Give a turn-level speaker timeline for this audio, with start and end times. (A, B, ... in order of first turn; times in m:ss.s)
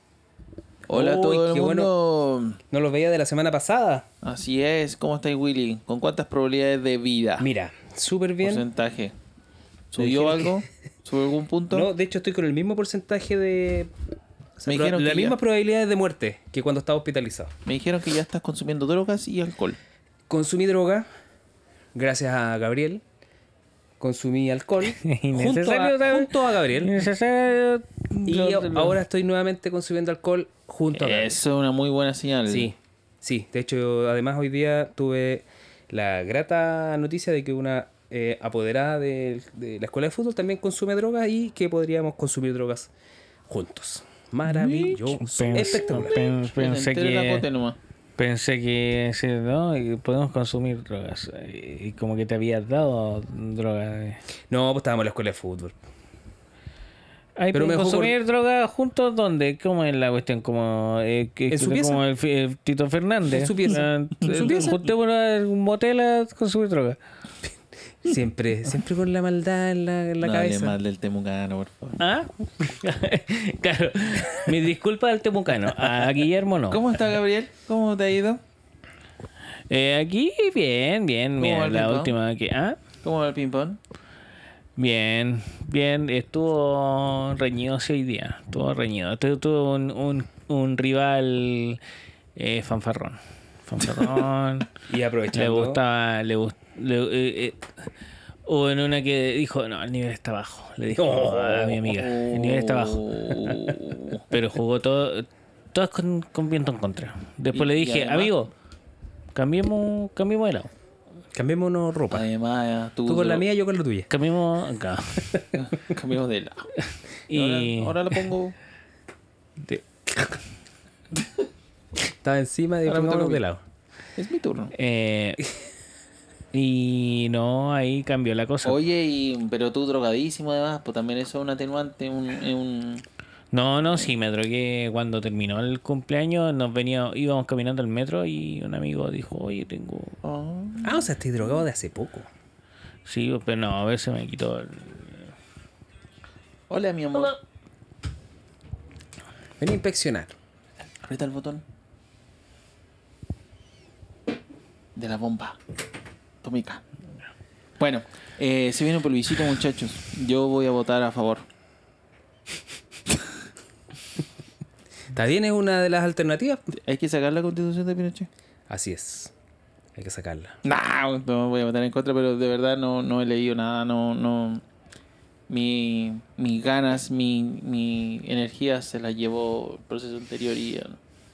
0:00.9-0:02.6 A
0:00.9-0:01.9 B
0:02.7-0:04.0 B
0:04.2-0:07.5 A
0:07.4-0:08.6 B
0:08.4-0:09.1 A
0:09.9-0:11.9 A
0:10.0-0:10.6 B
0:11.7-0:13.9 B
0:14.6-0:17.5 B
0:14.6-0:15.4 A
0:17.6-0:19.8 A
0:20.3-0:21.1 B
0:21.9-0:23.0 B
0:24.0-0:27.0 B
0:25.0-0:28.9 C
0:28.2-0:31.4 B
0:30.9-0:32.7 A
0:32.5-0:42.9 B
0:43.5-0:46.2 B
0:44.5-0:47.4 C
0:45.6-0:47.8 A
0:48.2-0:54.2 C
0:54.5-0:55.8 B
0:57.4-1:07.0 C
0:57.5-0:58.2 B
1:01.5-1:02.0 B
1:03.2-1:04.8 B
1:04.2-1:04.7 A
1:08.0-1:10.8 B
1:10.2-1:12.0 A
1:12.0-1:17.0 C
1:16.7-1:18.4 A
1:19.7-1:22.8 C
1:21.4-1:22.1 A
1:23.0-1:23.8 A
1:24.8-1:31.8 C
1:32.4-1:34.7 C
1:34.9-1:35.8 B
1:35.3-1:37.6 C
1:38.4-1:43.1 C
1:41.0-1:41.9 B
1:41.9-1:44.2 A
1:44.3-1:48.5 C
1:47.5-1:48.4 A
1:49.3-1:50.7 C
1:51.3-1:52.2 B
1:52.1-1:53.4 A
1:53.1-1:54.1 B
1:54.1-1:55.4 C
1:55.5-1:56.7 A
1:57.3-1:58.2 C
1:57.3-1:58.5 A
1:59.6-2:00.4 C
2:02.2-2:03.6 B
2:02.8-2:03.4 A
2:04.2-2:04.7 A
2:04.7-2:05.4 C
2:06.5-2:08.8 C
2:08.6-2:13.0 A
2:13.5-2:20.2 C
2:20.2-2:21.1 A
2:20.8-2:22.3 B
2:23.0-2:25.3 C
2:26.7-2:27.4 A
2:29.6-2:30.3 B
2:31.0-2:31.6 A
2:35.0-2:35.6 A
2:36.4-2:36.8 A
2:37.8-2:41.4 A
2:45.1-2:46.6 B
2:46.7-2:48.3 A
2:48.7-2:49.3 B
2:50.0-2:50.6 B
2:50.6-2:54.6 A
2:55.5-3:01.0 A